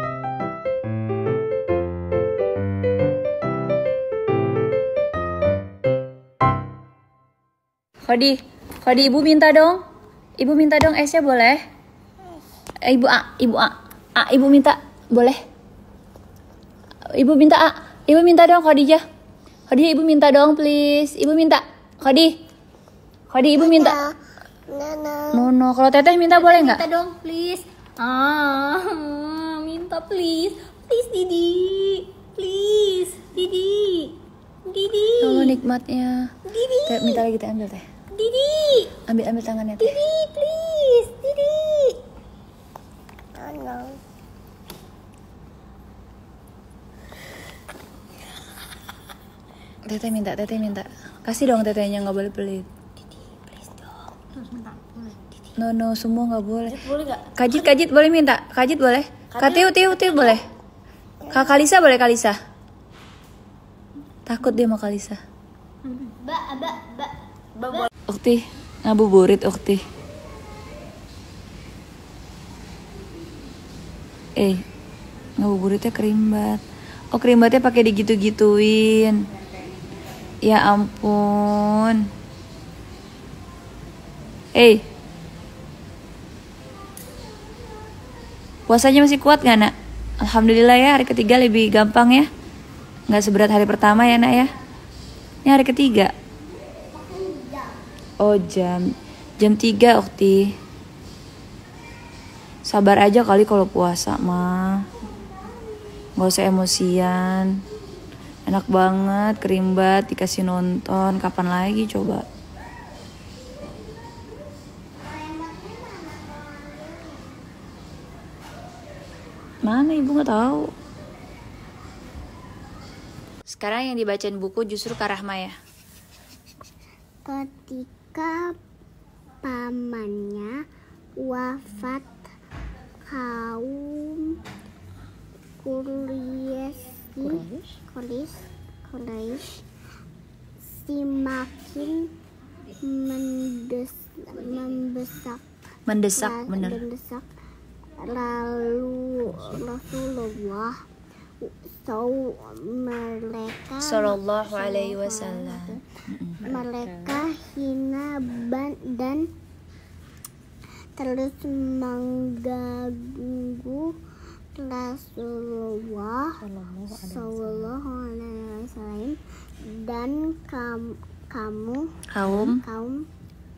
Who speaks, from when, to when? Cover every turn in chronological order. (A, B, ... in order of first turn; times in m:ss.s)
0:08.0-0:09.8 A
0:10.4-0:11.6 A
0:12.8-0:15.4 A
0:17.1-0:19.0 A
0:19.7-0:22.4 A
0:23.3-0:24.0 A
0:23.6-0:24.1 B
0:24.7-0:25.5 B
0:25.3-0:26.8 A
0:26.4-0:35.5 C
0:35.2-0:37.8 A
0:36.6-0:37.0 C
0:38.2-0:39.0 C
0:39.1-0:40.0 A
0:39.9-0:42.0 C
0:43.4-0:44.0 B
0:49.9-0:52.7 A
0:54.4-0:55.2 C
0:55.6-1:00.5 A
0:56.8-0:57.4 C
0:59.3-0:59.8 C
1:01.3-1:02.4 A
1:04.3-1:05.2 A
1:05.9-1:06.9 C
1:06.3-1:07.0 B
1:07.6-1:07.9 C
1:08.1-1:09.8 A
1:15.4-1:16.6 A
1:17.1-1:19.2 A
1:20.4-1:22.1 A
1:24.6-1:24.8 A
1:28.7-1:29.7 A
1:30.2-1:32.3 A
1:33.1-1:34.5 A
1:35.4-1:36.1 A
1:37.0-1:37.8 B
1:38.2-1:40.5 A
1:42.7-1:44.8 A
1:46.2-1:47.6 A
1:48.5-1:52.2 A
1:55.0-1:57.3 B
1:59.6-2:00.7 A
2:03.5-2:05.6 A
2:07.2-2:08.6 B
2:09.4-2:10.6 B
2:11.2-2:12.2 B
2:13.1-2:14.4 B
2:15.6-2:19.6 B
2:17.2-2:17.6 C
2:20.8-2:22.1 B
2:22.8-2:25.4 B
2:25.9-2:26.8 A
2:26.2-2:27.3 B
2:28.0-2:30.8 B
2:31.4-2:35.8 B
2:33.8-2:36.4 A
2:36.4-2:39.3 B
2:41.0-2:43.9 B
2:44.6-2:46.4 B
2:46.4-2:47.3 C
2:47.0-2:53.0 B
2:52.1-2:52.6 A